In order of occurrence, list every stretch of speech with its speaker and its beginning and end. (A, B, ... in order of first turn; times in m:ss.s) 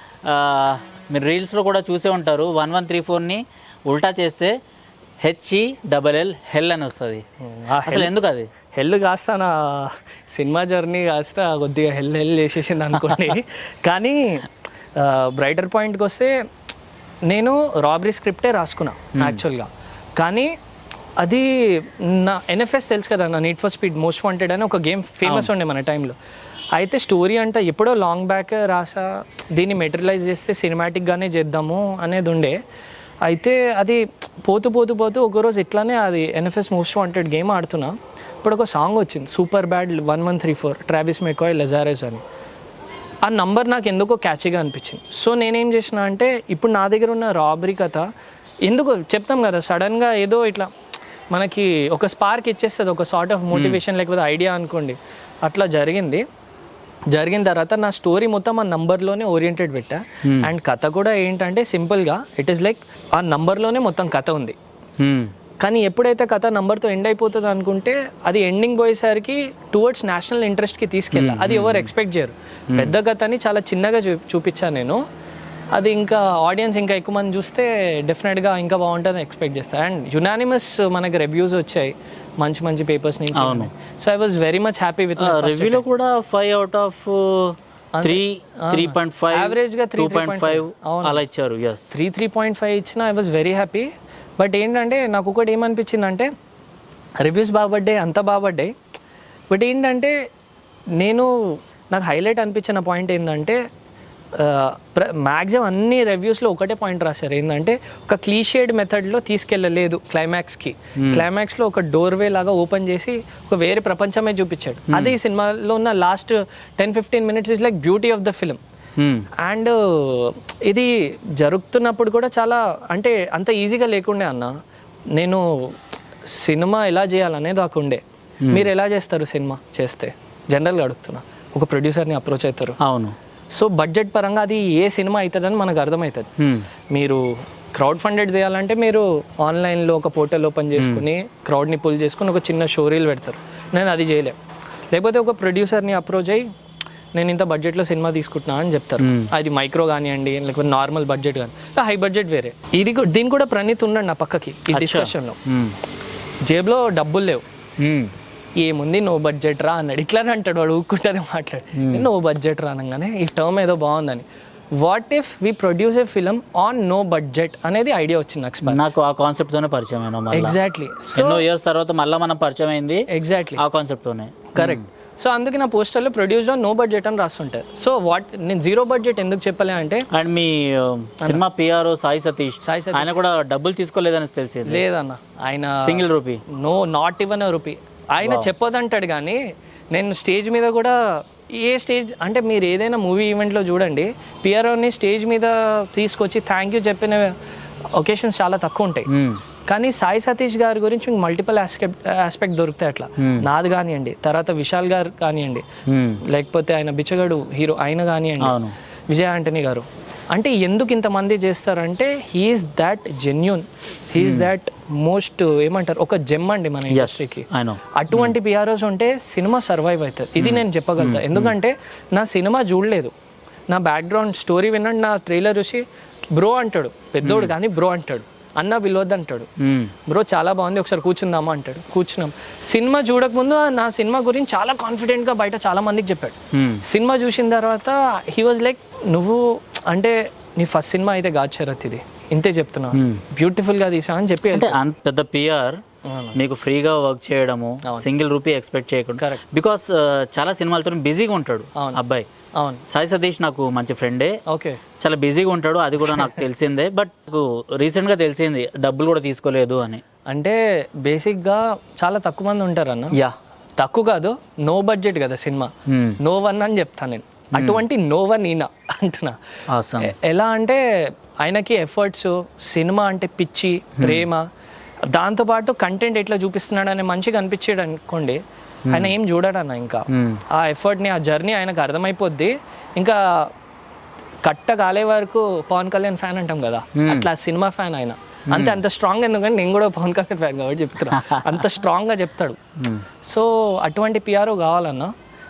0:00.2-0:04.5 A
0:05.2-0:07.2 A
0:07.4-0:08.1 B
0:07.8-0:08.5 A
0:08.7-0:16.3 B
0:17.3-0:20.5 B
0:21.2-0:26.1 B
0:25.2-0:25.5 A
0:26.7-0:32.6 B
0:33.2-0:42.2 B
0:43.2-0:48.1 B
0:48.6-0:50.7 B
0:51.3-0:56.2 B
0:53.5-0:53.8 A
0:57.1-1:04.6 B
1:05.0-1:05.3 A
1:05.6-1:15.0 B
1:11.1-1:11.9 A
1:15.7-1:25.8 B
1:23.3-1:23.7 A
1:25.2-1:31.9 A
1:28.0-1:31.2 B
1:31.9-1:36.3 B
1:37.2-1:38.7 B
1:39.5-1:40.2 B
1:41.0-1:43.6 B
1:44.3-1:58.6 B
1:54.9-1:55.2 A
1:59.0-1:59.3 A
1:59.4-2:04.5 B
2:05.2-2:05.7 B
2:06.3-2:12.8 B
2:12.8-2:13.2 A
2:13.5-2:16.3 B
2:16.4-2:16.6 A
2:16.9-2:24.4 B
2:20.8-2:21.0 A
2:24.9-2:26.4 B
2:27.1-2:35.4 B
2:29.0-2:29.3 A
2:34.7-2:35.8 A
2:36.4-2:37.4 B
2:37.8-2:38.1 A
2:38.6-2:48.8 B
2:41.8-2:42.1 A
2:48.6-2:50.6 A
2:50.3-2:51.4 B
2:51.1-2:54.8 A
2:53.1-2:53.6 B
2:54.5-3:00.1 B
3:00.1-3:04.8 A
3:02.6-3:03.1 B
3:04.7-3:09.4 B
3:05.8-3:06.4 A
3:08.2-3:08.5 A
3:09.9-3:11.0 B
3:11.6-3:17.3 B
3:18.0-3:19.1 B
3:19.1-3:19.4 A
3:19.7-3:25.6 B
3:25.9-3:26.2 A
3:26.2-3:28.6 B
3:28.4-3:28.7 A
3:29.1-3:43.1 B
3:34.2-3:34.5 A
3:36.9-3:38.3 A
3:40.4-3:41.5 A
3:43.7-3:45.8 B
3:46.4-3:49.5 B
3:47.2-3:47.5 A
3:49.6-3:49.9 A
3:50.1-4:04.8 B
3:56.5-3:56.8 A
4:02.9-4:03.2 A
4:04.5-4:05.8 A
4:06.1-4:06.4 B
4:06.3-4:12.3 A
4:12.6-4:12.8 B
4:12.9-4:14.4 A
4:14.5-4:14.8 B
4:15.0-4:20.0 A
4:20.3-4:23.2 B
4:23.8-4:29.3 B
4:25.9-4:26.2 A
4:27.6-4:27.8 A
4:29.7-4:30.1 A
4:30.0-4:34.4 B
4:34.0-4:34.3 A
4:35.1-4:43.5 B
4:38.9-4:39.1 A
4:40.1-4:40.4 A
4:44.4-4:52.6 B
4:47.0-4:47.3 A
4:48.5-4:48.8 A
4:51.1-4:51.7 A
4:53.2-4:55.1 B